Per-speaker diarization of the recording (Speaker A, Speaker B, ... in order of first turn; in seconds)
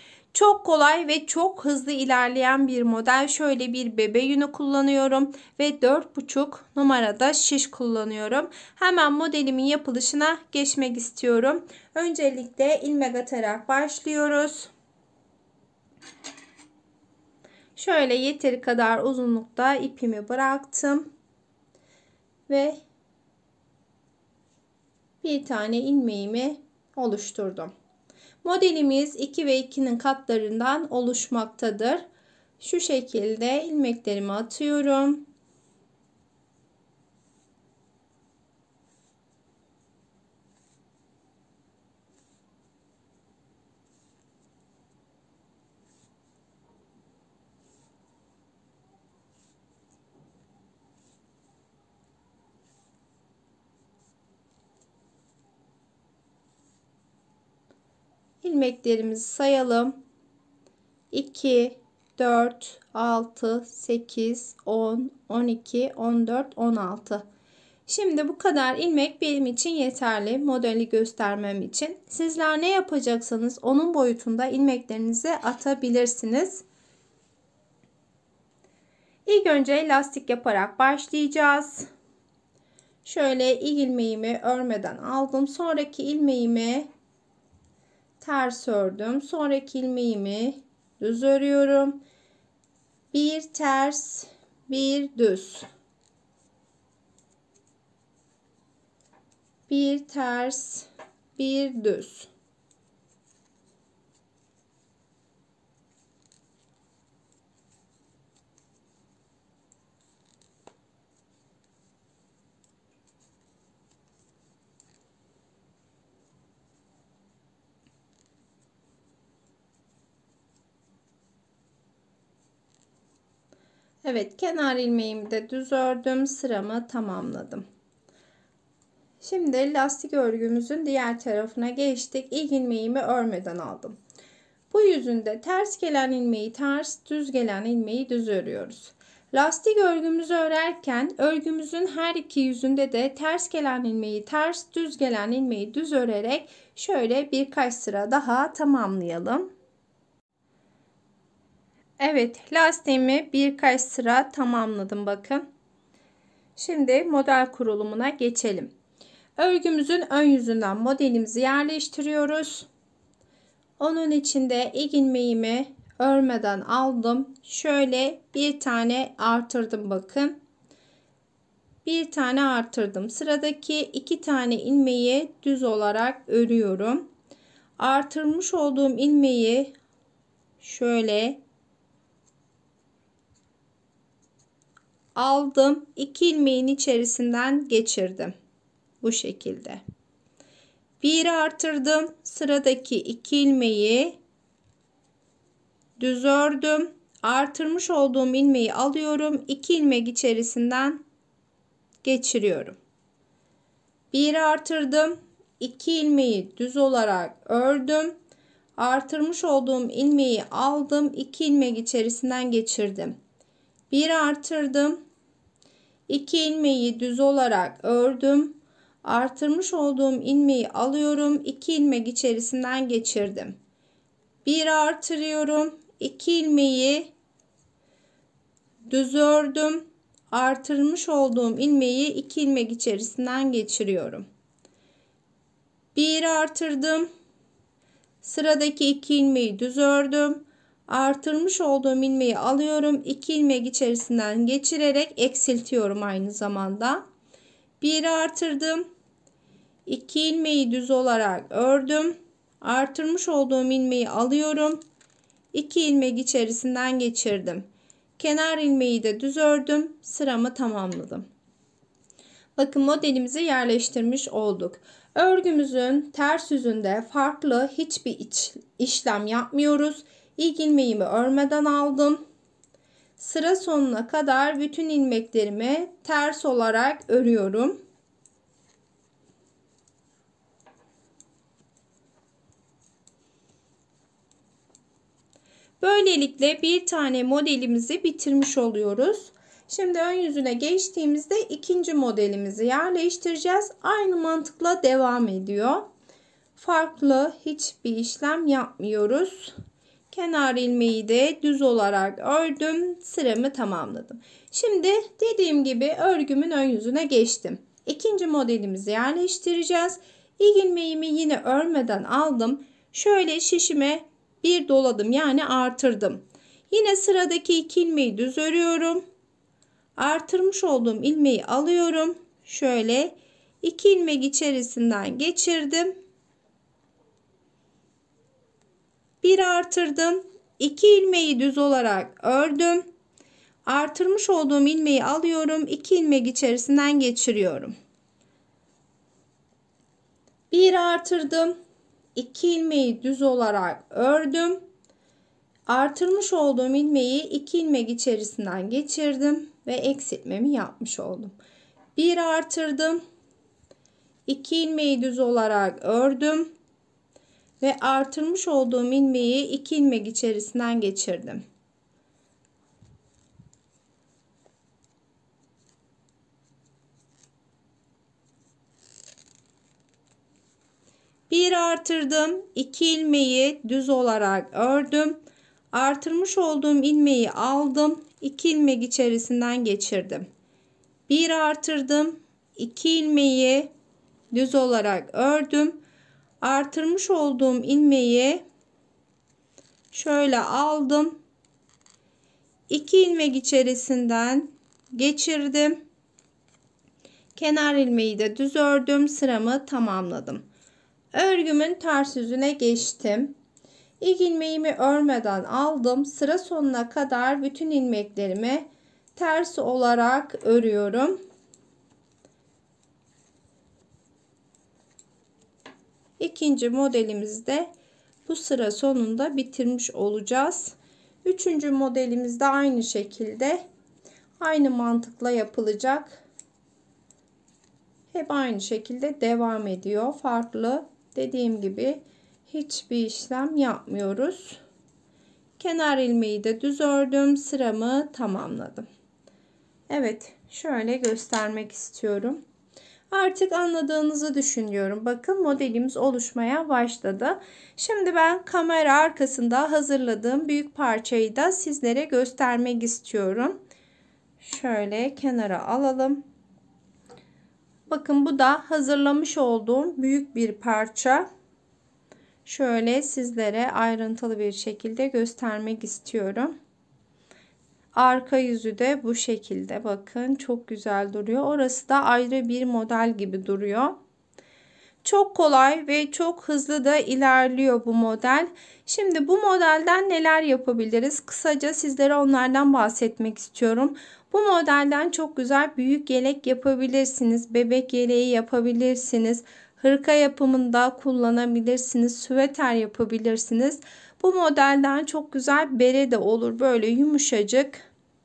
Speaker A: 0.3-14.7, 17.8-21.1, 22.5-22.8, 25.2-27.7, 28.4-32.0, 32.6-35.2, 58.4-60.0, 61.1-67.3, 67.9-76.7, 79.3-81.9, 83.0-86.9, 88.2-92.0, 93.1-95.7, 99.7-102.3, 124.0-127.6, 129.2-134.0, 134.7-149.5, 152.0-155.4, 156.6-158.7, 159.4-162.7, 163.8-170.4, 171.8-177.1, 177.8-179.7, 180.6-181.4, 185.2-188.3, 189.0-189.8, 191.0-194.2, 196.0-201.0, 202.0-202.8, 204.1-208.2, 208.8-213.2, 213.9-215.0, 216.1-223.6, 224.4-227.1, 228.9-234.2, 235.9-237.1, 238.2-247.0, 247.8-248.8, 249.9-254.8, 255.5-257.7, 258.2-261.2, 262.6-272.2, 273.2-277.8, 285.8-295.9, 296.6-299.5, 300.1-319.0, 320.0-326.0, 329.2-332.9, 333.6-337.7, 340.5-341.6, 342.1-344.6, 345.7-351.3, 352.0-353.0, 354.3-356.5, 357.6-361.4, 371.3-375.2, 375.7-380.2, 381.1-383.7, 384.3-385.8, 386.4-388.4, 389.9-391.2, 392.7-395.8, 397.4-400.4, 401.1-403.3, 404.0-411.2, 416.2-417.7, 418.3-423.6, 424.4-426.2, 428.1-434.6, 435.6-438.9, 439.9-442.4, 443.1-453.6, 454.4-456.2, 457.9-461.2, 462.4-466.5, 467.9-474.0, 475.0-497.9